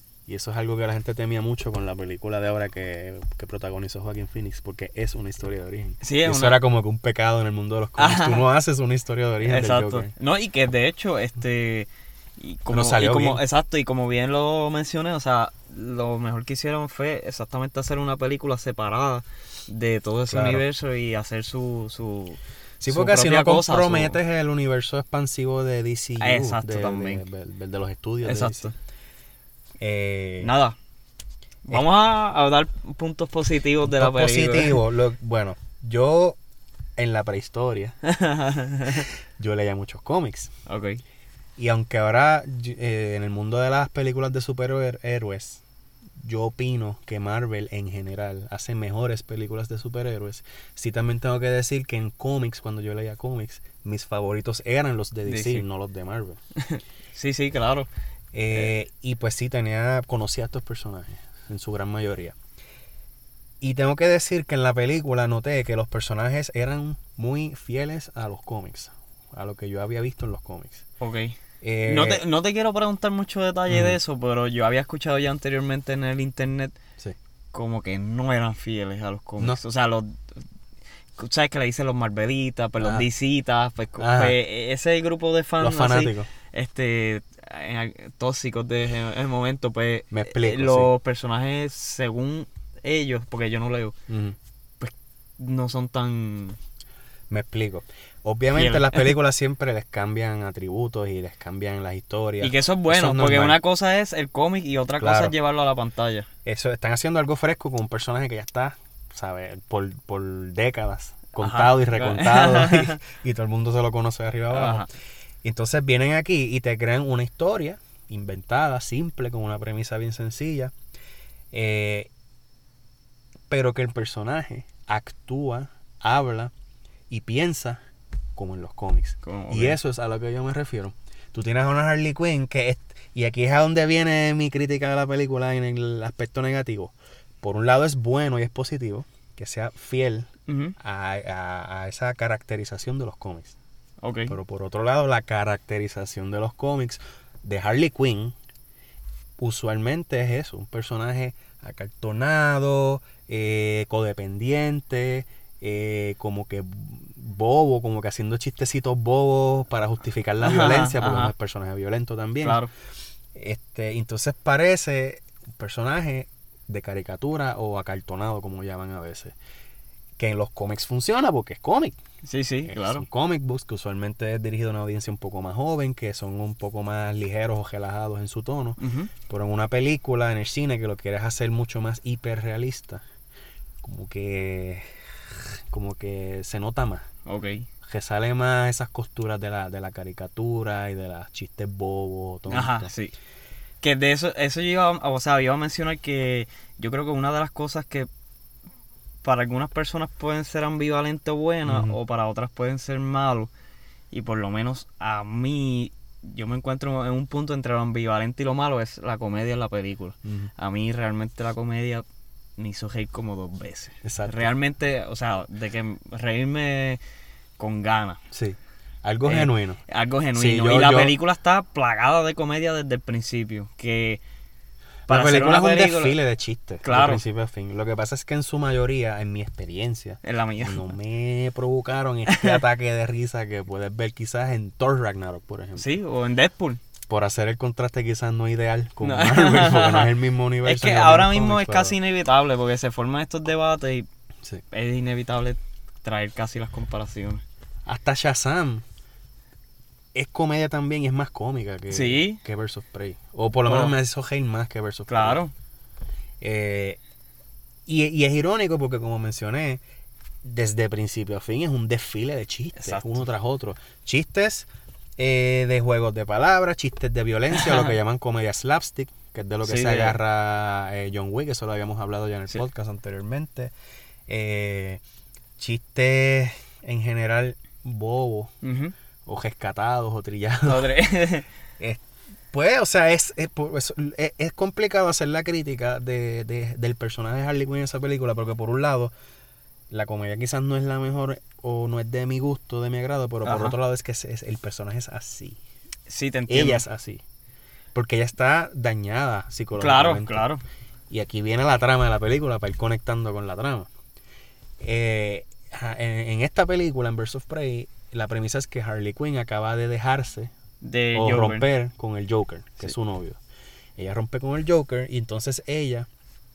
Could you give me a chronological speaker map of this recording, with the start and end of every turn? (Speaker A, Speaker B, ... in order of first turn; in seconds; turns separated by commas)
Speaker A: 0.3-10.1, Speaker B: 6.0-6.6, Speaker B: 8.0-8.4, Speaker B: 9.4-24.2, Speaker A: 12.7-13.4, Speaker A: 20.3-20.6, Speaker A: 22.8-28.7, Speaker B: 26.2-27.2, Speaker B: 28.2-28.7, Speaker A: 29.8-30.5, Speaker B: 30.4-30.8, Speaker B: 31.7-34.8, Speaker A: 33.8-36.4, Speaker A: 37.0-38.0, Speaker B: 38.0-39.1, Speaker A: 38.9-40.5, Speaker B: 40.7-41.0, Speaker A: 41.6-45.6, Speaker A: 46.2-56.4, Speaker B: 55.3-55.6, Speaker B: 56.6-57.9, Speaker A: 58.3-62.4, Speaker A: 63.6-70.8, Speaker B: 71.0-76.8, Speaker A: 71.6-72.2, Speaker A: 73.7-74.0, Speaker B: 77.5-80.3, Speaker B: 81.2-94.0, Speaker A: 82.8-83.0, Speaker A: 84.0-84.4, Speaker A: 85.6-86.3, Speaker A: 90.1-90.9, Speaker A: 94.1-94.4, Speaker B: 94.8-96.6, Speaker A: 97.3-103.6, Speaker B: 98.5-99.1, Speaker B: 102.4-106.3, Speaker A: 105.0-105.3, Speaker A: 106.5-114.9, Speaker B: 111.4-113.0, Speaker B: 114.5-114.9, Speaker A: 115.4-120.7, Speaker A: 121.5-122.1, Speaker A: 123.5-126.5, Speaker A: 127.1-127.8, Speaker A: 128.4-143.6, Speaker B: 129.2-129.8, Speaker B: 140.5-140.7, Speaker B: 144.0-144.4, Speaker A: 144.3-148.3, Speaker A: 149.4-162.6, Speaker B: 160.4-161.3, Speaker B: 162.4-162.7, Speaker A: 163.3-169.3, Speaker A: 170.2-172.0, Speaker B: 172.2-173.1, Speaker A: 172.7-183.0, Speaker B: 178.8-179.1, Speaker A: 183.8-187.1, Speaker B: 187.3-187.7, Speaker A: 187.8-192.9, Speaker B: 192.5-193.1, Speaker B: 193.8-198.1, Speaker B: 199.2-203.5, Speaker A: 201.7-202.0, Speaker B: 204.1-212.1, Speaker A: 210.2-210.5, Speaker B: 212.6-217.0, Speaker A: 214.0-214.5, Speaker B: 217.6-218.2, Speaker A: 218.3-219.8, Speaker B: 219.3-224.2, Speaker A: 220.3-221.2, Speaker A: 225.1-235.9, Speaker B: 225.1-226.2, Speaker B: 226.8-227.2, Speaker B: 230.2-230.9, Speaker B: 232.3-232.6, Speaker B: 235.8-236.8, Speaker A: 237.1-242.0, Speaker B: 239.0-240.1, Speaker B: 240.6-244.1, Speaker B: 244.7-247.4, Speaker A: 247.9-248.8, Speaker A: 250.1-255.4, Speaker B: 251.9-252.4, Speaker B: 253.7-253.9, Speaker B: 255.1-255.5, Speaker A: 256.4-257.0, Speaker A: 257.9-259.8, Speaker A: 260.4-273.7, Speaker B: 262.8-263.2, Speaker B: 267.6-267.9, Speaker B: 269.6-270.2, Speaker A: 274.3-275.0, Speaker A: 275.6-278.5, Speaker B: 278.6-278.9, Speaker A: 279.3-281.0, Speaker B: 280.7-281.5, Speaker A: 281.8-289.1, Speaker A: 289.9-295.6, Speaker B: 293.4-293.8, Speaker B: 296.1-296.9, Speaker A: 296.5-297.2, Speaker A: 297.9-300.5, Speaker B: 299.8-300.6, Speaker A: 301.1-303.9, Speaker A: 304.8-310.5, Speaker B: 310.8-311.7, Speaker A: 311.1-313.4, Speaker A: 314.0-316.1